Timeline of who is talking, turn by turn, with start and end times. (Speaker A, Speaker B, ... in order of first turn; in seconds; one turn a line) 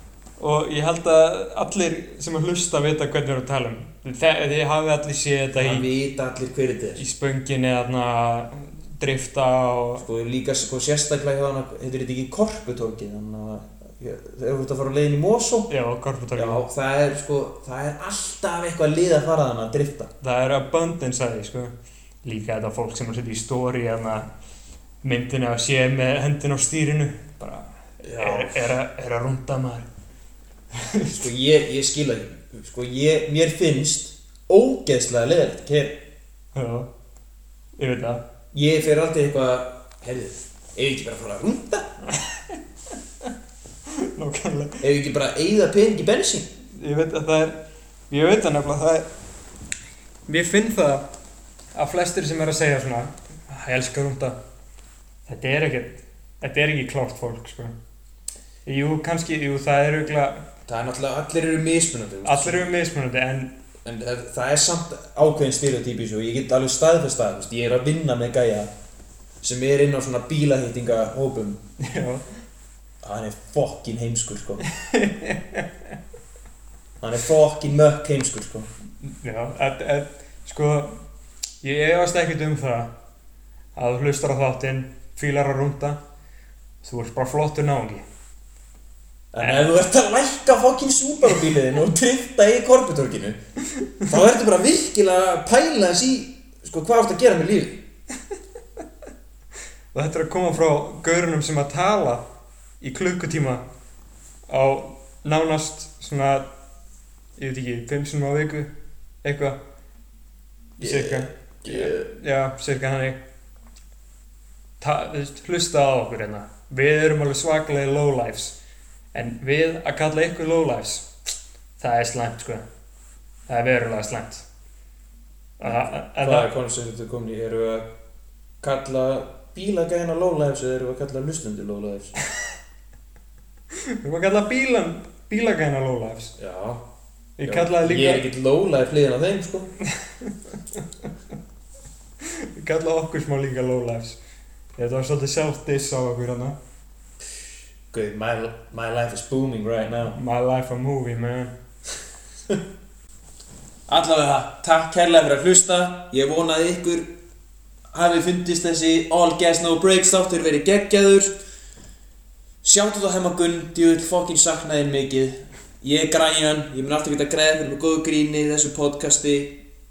Speaker A: 0.4-5.9
Speaker B: 5.5-7.0
Speaker A: 7.0-10.0
Speaker B: 10.0-15.7
Speaker A: 15.7-16.6
Speaker B: 16.3-20.1
Speaker A: 20.2-21.7
Speaker A: 22.2-24.3
Speaker A: 25.0-29.9
Speaker B: 28.0-28.7
Speaker A: 30.7-31.2
Speaker B: 31.1-36.0
Speaker A: 36.5-36.9
Speaker A: 37.8-38.2
Speaker B: 38.5-41.9
Speaker A: 42.1-42.6
Speaker A: 43.9-44.8
Speaker B: 44.8-46.5
Speaker A: 46.7-49.1
Speaker A: 50.3-51.0
Speaker A: 51.7-54.4
Speaker A: 55.3-57.7
Speaker A: 58.6-60.4
Speaker B: 60.7-62.6
Speaker A: 62.2-63.5
Speaker B: 63.8-68.7
Speaker B: 69.4-71.6
Speaker A: 71.8-72.3
Speaker B: 73.0-74.6
Speaker A: 74.7-75.9
Speaker B: 77.0-78.7
Speaker A: 79.1-81.0
Speaker A: 81.6-82.9
Speaker A: 83.8-86.0
Speaker A: 86.8-88.0
Speaker B: 89.3-93.4
Speaker A: 89.4-89.7
Speaker B: 94.0-97.8
Speaker A: 99.9-102.2
Speaker A: 102.8-103.6
Speaker A: 104.5-106.5
Speaker A: 107.4-108.7
Speaker A: 109.2-109.6
Speaker A: 110.8-113.2
Speaker B: 110.8-112.1
Speaker A: 114.8-118.6
Speaker A: 119.1-121.1
Speaker A: 121.8-122.6
Speaker A: 123.5-124.5
Speaker A: 125.6-126.5
Speaker B: 125.7-127.9
Speaker B: 128.6-132.1
Speaker A: 133.9-136.3
Speaker B: 136.4-136.8
Speaker A: 137.4-138.2
Speaker B: 137.4-139.7
Speaker A: 139.9-141.1
Speaker A: 142.2-144.2
Speaker A: 144.8-146.6
Speaker B: 147.9-150.2
Speaker A: 150.1-151.5
Speaker B: 153.9-157.1
Speaker B: 157.9-161.4
Speaker B: 162.6-169.6